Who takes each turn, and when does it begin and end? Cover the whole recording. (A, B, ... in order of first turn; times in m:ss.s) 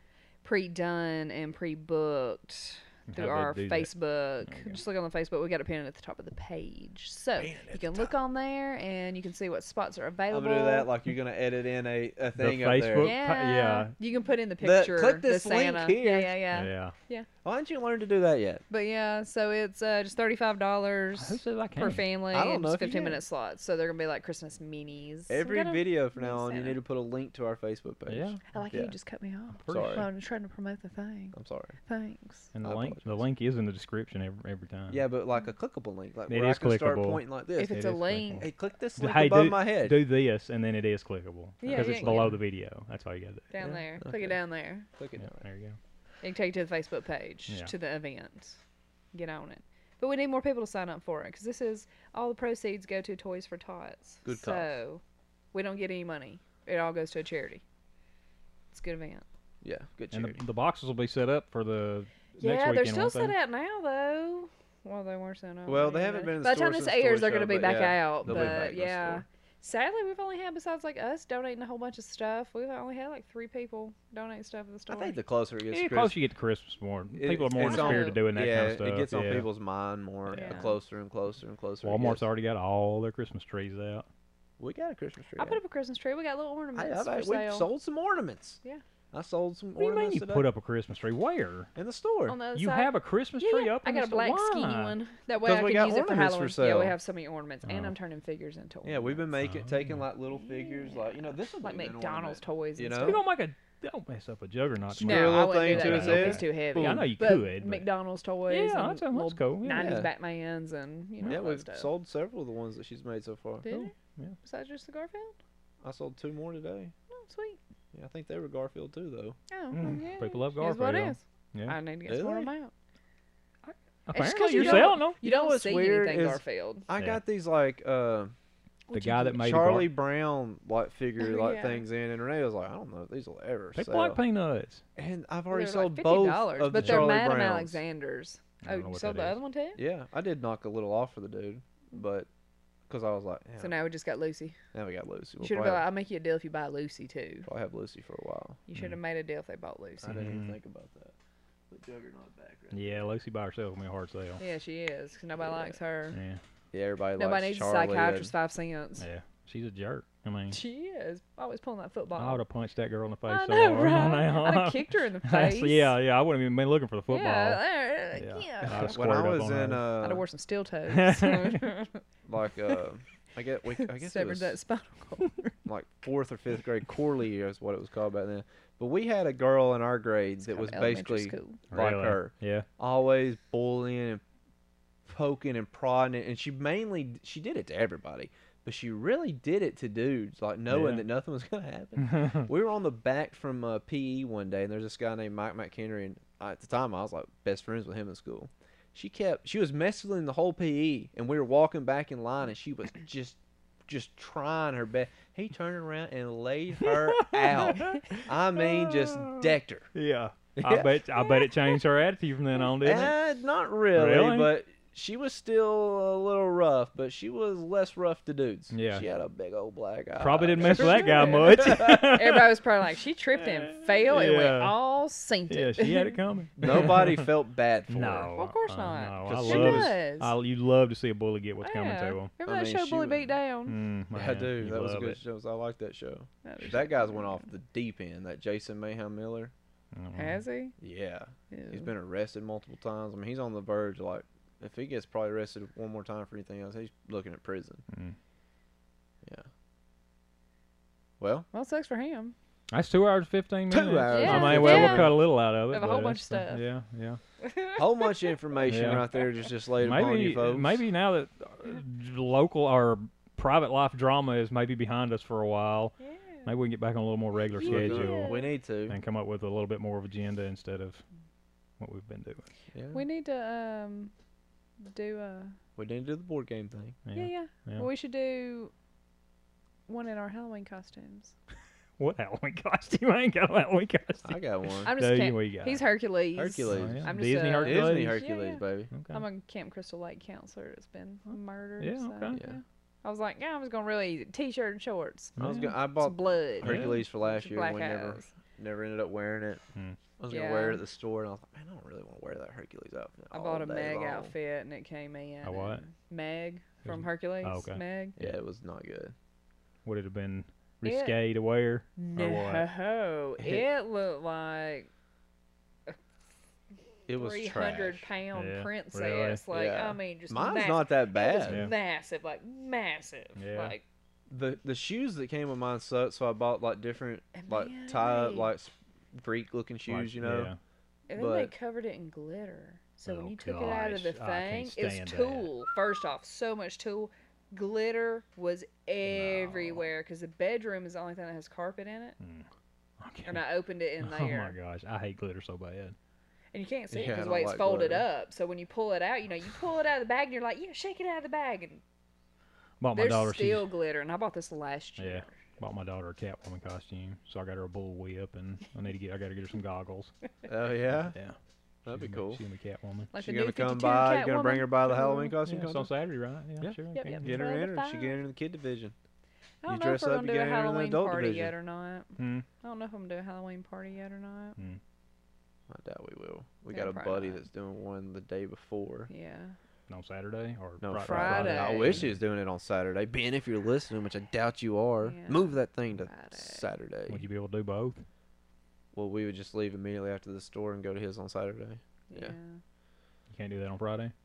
0:00.4-0:10.9 A
0:03.1-0:03.9 B
0:04.4-0:04.8 B
0:07.4-0:08.1 C
0:10.3-0:13.1 C
0:12.4-0:13.9 B
0:13.0-0:17.3 A
0:14.6-0:16.4 C
0:16.5-0:16.9 B
0:17.4-0:18.6 C
0:18.7-0:26.8 A
0:21.2-0:22.0 B
0:22.3-0:23.2 C
0:25.3-0:28.9 C
0:28.1-0:28.4 B
0:28.5-0:32.5 A
0:29.6-0:30.0 B
0:29.7-0:30.1 C
0:31.3-0:31.8 C
0:32.5-0:35.0 B
0:32.6-0:33.2 C
0:34.9-0:40.0 C
0:36.3-0:38.4 B
0:37.6-0:38.5 A
0:39.0-0:43.5 B
0:41.6-0:42.4 A
0:41.6-0:42.3 C
0:43.5-0:44.9 A
0:43.6-0:44.4 C
0:45.0-0:45.4 C
0:45.2-0:45.8 B
0:46.2-0:48.6 A
0:49.1-0:55.0 A
0:54.2-0:54.7 C
0:55.5-0:57.6 A
0:58.7-0:59.2 A
0:59.6-1:00.4 C
1:00.1-1:03.3 B
1:02.4-1:15.2 A
1:05.7-1:09.2 C
1:08.2-1:08.6 B
1:14.9-1:16.2 C
1:15.7-1:19.5 B
1:17.2-1:22.2 C
1:17.6-1:18.2 A
1:20.3-1:20.8 A
1:20.3-1:20.6 B
1:21.8-1:24.0 B
1:24.6-1:25.6 C
1:25.4-1:27.7 A
1:26.7-1:28.6 C
1:29.1-1:30.4 C
1:29.8-1:31.7 B
1:31.7-1:32.4 C
1:32.3-1:39.2 A
1:32.5-1:35.0 B
1:35.4-1:37.0 C
1:37.6-1:37.9 B
1:38.8-1:43.2 C
1:39.4-1:40.0 B
1:40.4-1:43.2 A
1:43.0-1:47.9 B
1:44.9-1:47.1 C
1:45.0-1:51.9 A
1:48.5-1:50.0 B
1:49.7-1:50.1 C
1:51.2-1:53.7 C
1:53.6-1:53.9 A
1:53.6-1:54.4 B
1:54.4-1:55.4 A
1:55.8-1:56.9 C
1:57.1-1:57.6 A
1:57.9-1:59.4 C
1:59.5-2:02.7 A
1:59.7-2:01.8 B
2:02.1-2:02.5 C
2:03.6-2:05.2 B
2:04.1-2:06.9 A
2:04.5-2:08.3 C
2:08.9-2:09.7 A
2:08.9-2:09.9 B
2:09.4-2:14.2 C
2:11.2-2:11.8 A
2:13.8-2:14.8 B
2:15.0-2:17.8 C
2:15.5-2:19.8 A
2:16.8-2:17.1 B
2:18.6-2:19.4 B
2:19.8-2:22.3 C
2:22.9-2:23.7 C
2:23.6-2:24.6 A
2:24.7-2:25.8 C
2:25.4-2:27.4 A
2:27.4-2:28.6 C
2:28.7-2:30.3 A
2:30.0-2:31.1 C
2:30.1-2:30.5 B
2:31.7-2:33.0 C
2:32.7-2:34.4 B
2:34.4-2:36.2 A
2:35.4-2:35.8 C
2:36.1-2:36.4 B
2:36.7-2:38.3 C
2:37.2-2:39.0 A
2:39.0-2:40.6 B
2:40.5-2:42.4 A
2:42.2-2:47.6 B
2:43.3-2:45.9 A
2:47.1-2:49.0 A
2:48.1-2:49.9 B
2:48.6-2:50.2 C
2:50.0-2:52.0 A
2:50.9-2:51.7 B
2:52.3-2:54.6 C
2:53.8-2:55.5 A
2:55.6-3:04.2 C
3:00.4-3:01.6 A
3:01.7-3:02.7 B
3:05.0-3:29.9 C
3:10.7-3:11.1 B
3:12.0-3:12.4 B
3:26.8-3:33.2 B
3:30.6-3:31.0 C
3:31.2-3:31.8 A
3:32.8-3:42.1 C
3:33.9-3:34.5 B
3:38.7-3:39.0 B
3:40.2-3:42.5 B
3:40.6-3:46.2 A
3:43.4-3:44.8 B
3:45.5-3:47.3 B
3:46.6-3:48.3 C
3:47.9-3:52.3 B
3:48.3-3:50.3 A
3:49.2-3:50.0 C
3:51.6-3:53.8 A
3:52.4-3:53.3 C
3:53.7-3:55.2 B
3:54.1-3:59.5 C
3:56.4-3:57.4 A
3:59.9-4:00.4 B
4:00.2-4:00.8 A
4:00.8-4:07.8 C
4:01.5-4:01.9 A
4:07.9-4:08.2 B
4:11.2-4:11.5 C
4:11.5-4:12.3 A
4:12.7-4:17.2 B
4:13.7-4:15.2 C
4:14.1-4:16.6 A
4:17.4-4:18.3 A
4:17.8-4:20.8 C
4:18.7-4:19.1 B
4:19.8-4:25.9 B
4:26.0-4:26.5 A
4:26.4-4:28.3 B
4:27.6-4:28.5 A
4:27.6-4:29.0 C
4:28.9-4:31.0 B
4:31.8-4:32.4 B
4:32.7-4:33.0 C
4:32.9-4:34.1 A
4:34.8-4:35.5 A
4:35.8-4:37.0 C
4:37.0-4:37.9 B
4:37.1-4:38.7 A
4:39.9-4:41.3 A
4:42.0-4:45.8 B
4:44.2-4:44.9 C
4:44.8-4:55.4 A
4:46.4-4:48.9 C
4:46.7-4:48.2 B
4:48.9-4:49.2 B
4:51.8-4:52.4 B
4:52.3-4:52.6 C
4:55.4-4:55.8 B
4:55.4-4:59.6 C
4:56.0-4:58.3 A
4:56.6-4:57.0 B
5:00.2-5:04.3 C
5:00.3-5:00.8 A
5:03.3-5:08.2 A
5:05.4-5:05.8 B
5:06.8-5:08.4 B
5:08.2-5:09.1 C
5:09.8-5:12.7 B
5:10.8-5:11.2 A
5:12.0-5:14.9 A
5:17.1-5:18.0 C
5:17.1-5:23.8 A
5:18.3-5:19.4 B
5:19.5-5:21.7 C
5:21.4-5:21.7 B
5:23.4-5:23.7 B
5:24.3-5:30.5 C
5:27.3-5:28.5 A
5:29.9-5:30.6 B
5:31.1-5:42.2 A
5:31.1-5:31.5 C
5:33.1-5:35.5 B
5:39.0-5:39.8 B
5:42.2-5:42.5 B
5:43.0-5:43.4 B
5:43.2-5:44.5 A
5:44.0-5:46.0 B
5:46.5-5:51.8 A
5:46.9-5:48.0 C
5:52.8-5:53.7 B
5:52.9-5:55.3 A
5:55.0-6:00.1 B
6:00.5-6:01.2 C
6:01.0-6:01.4 B
6:01.8-6:02.4 C
6:01.9-6:03.1 B
6:03.1-6:05.4 A
6:03.1-6:05.9 C
6:05.4-6:07.4 B
6:06.6-6:08.9 C
6:06.9-6:08.2 A
6:09.6-6:14.6 A
6:09.7-6:11.5 C
6:12.2-6:12.4 B
6:15.7-6:19.1 C
6:16.7-6:17.4 A
6:19.1-6:19.5 A
6:19.9-6:22.2 B
6:20.8-6:27.2 C
6:21.0-6:22.1 A
6:25.0-6:26.7 A
6:27.1-6:28.0 B
6:28.9-6:32.3 C
6:32.1-6:32.6 A
6:33.3-6:34.1 B